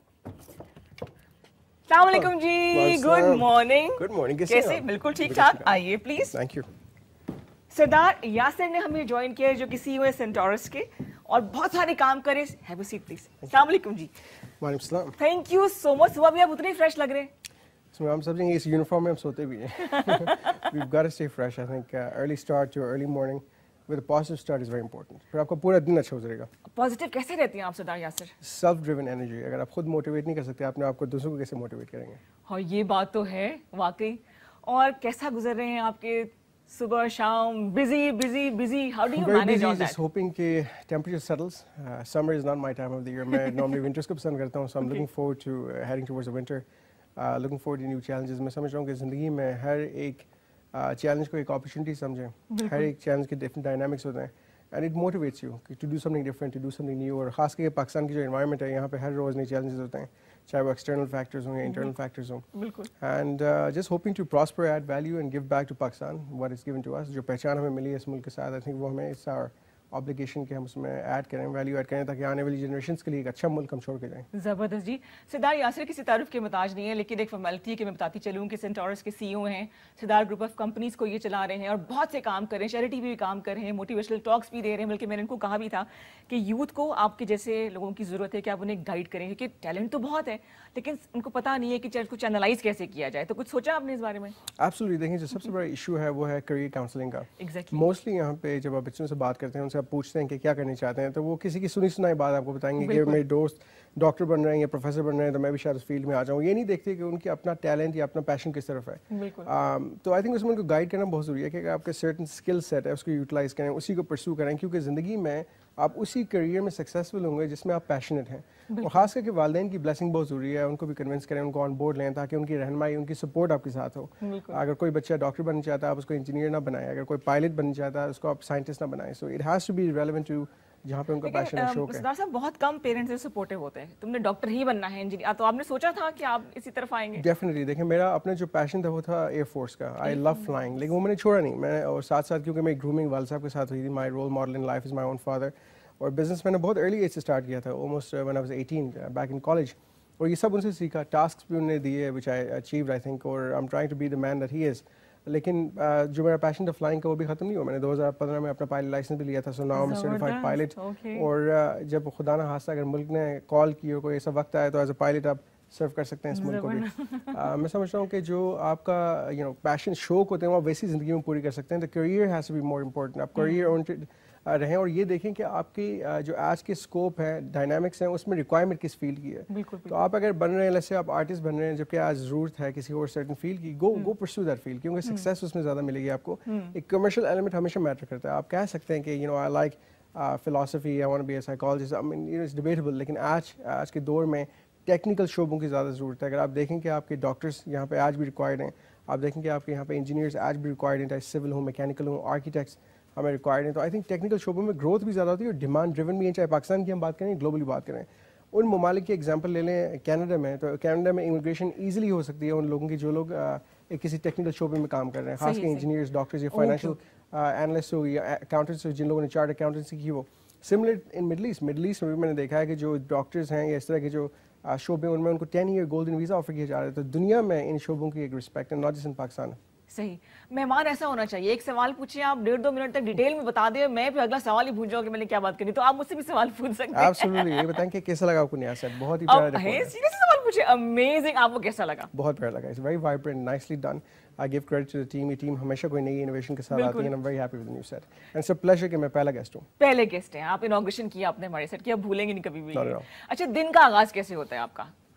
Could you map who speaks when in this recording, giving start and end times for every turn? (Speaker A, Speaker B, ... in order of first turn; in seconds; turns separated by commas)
Speaker A: 1.9-6.3, Speaker B: 2.1-5.8, Speaker B: 6.3-6.7, Speaker A: 7.7-14.1, Speaker B: 14.6-15.2, Speaker A: 15.2-17.3, Speaker B: 17.9-26.5, Speaker A: 19.8-20.7, Speaker A: 26.7-28.3, Speaker B: 28.4-32.2, Speaker A: 32.5-40.0, Speaker B: 39.1-46.6, Speaker A: 43.4-43.6, Speaker B: 47.2-74.3, Speaker A: 52.5-52.9, Speaker A: 61.6-61.9, Speaker A: 62.5-62.9, Speaker A: 74.3-94.4, Speaker B: 94.6-132.0, Speaker A: 97.4-97.8, Speaker A: 102.8-103.2, Speaker A: 109.1-109.5, Speaker A: 118.7-119.1, Speaker A: 124.2-124.6, Speaker A: 131.2-137.2, Speaker B: 137.2-229.6, Speaker A: 140.0-140.8, Speaker A: 159.7-161.3, Speaker A: 166.3-167.4, Speaker A: 173.4-173.7, Speaker A: 179.5-180.0, Speaker A: 185.0-185.3, Speaker A: 186.5-186.8, Speaker A: 215.4-215.9, Speaker A: 216.5-217.0, Speaker A: 229.9-237.8, Speaker B: 236.9-239.9, Speaker A: 239.3-242.1, Speaker B: 242.1-249.7, Speaker A: 246.7-247.1, Speaker A: 249.8-254.9, Speaker B: 252.7-253.1